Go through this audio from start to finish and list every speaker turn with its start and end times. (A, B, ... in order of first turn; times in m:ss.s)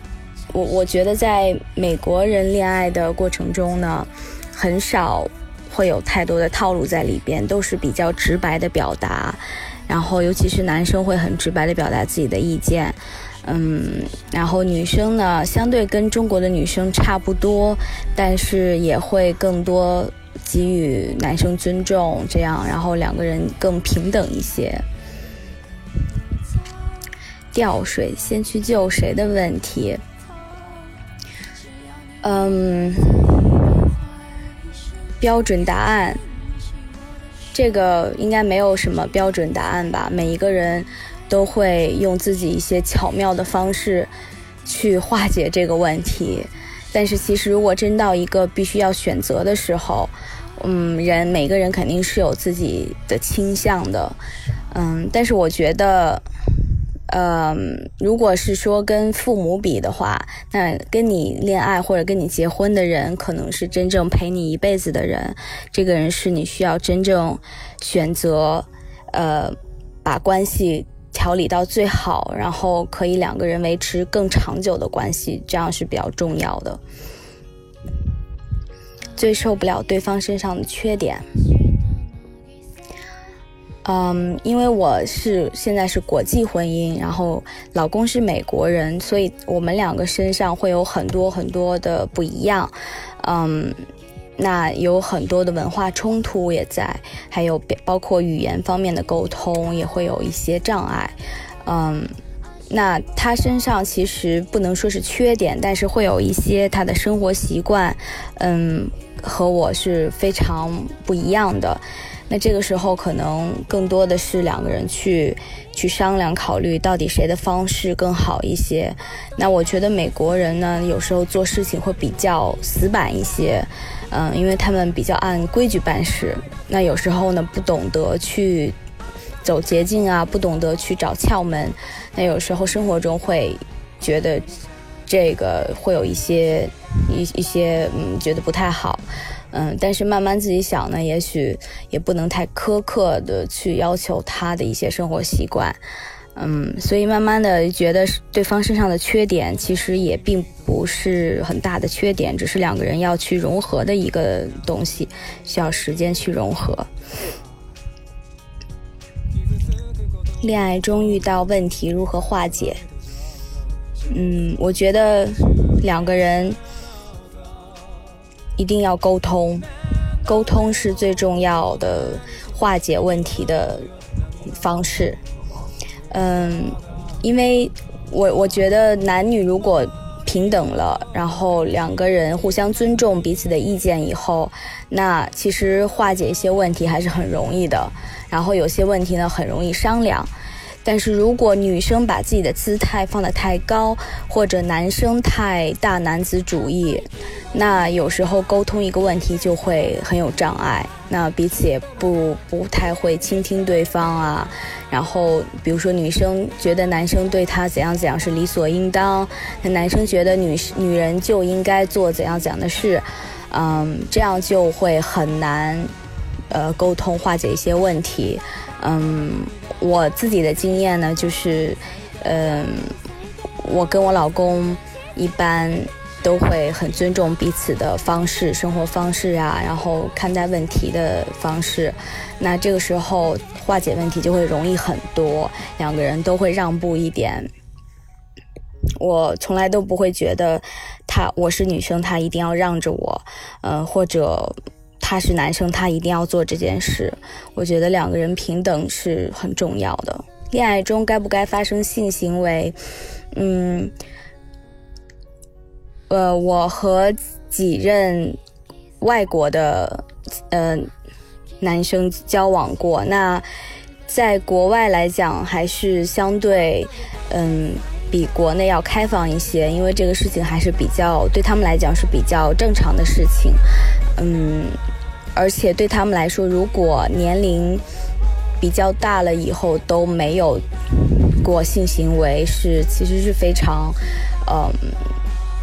0:00.5-0:24.8 A
0:27.5-0:30.0 A
0:32.2-0:33.5 A
0:35.2-0:36.2 A
0:37.5-0:44.1 A
0:44.6-0:54.2 A
0:54.7-0:56.2 A
0:57.1-1:16.8 A
1:19.2-1:21.2 A
1:23.8-1:33.8 A
1:34.4-1:42.1 A
1:42.7-2:08.8 A
2:09.4-2:14.5 A
2:15.1-2:25.8 A
2:26.4-2:36.9 A
2:40.4-2:42.8 A
2:44.1-2:46.6 A
2:48.6-2:49.6 A
2:50.2-2:53.9 A
2:54.5-2:55.2 A
2:56.1-3:10.3 A
3:10.8-3:35.9 A
3:36.5-3:42.9 A
3:43.6-3:57.5 A
3:59.0-4:12.8 A
4:13.3-4:13.9 A
4:16.1-4:18.4 A
4:19.0-4:20.9 A
4:21.6-4:23.4 A
4:24.1-4:33.6 A
4:34.2-4:34.8 A
4:35.3-4:37.8 A
4:38.6-4:45.1 A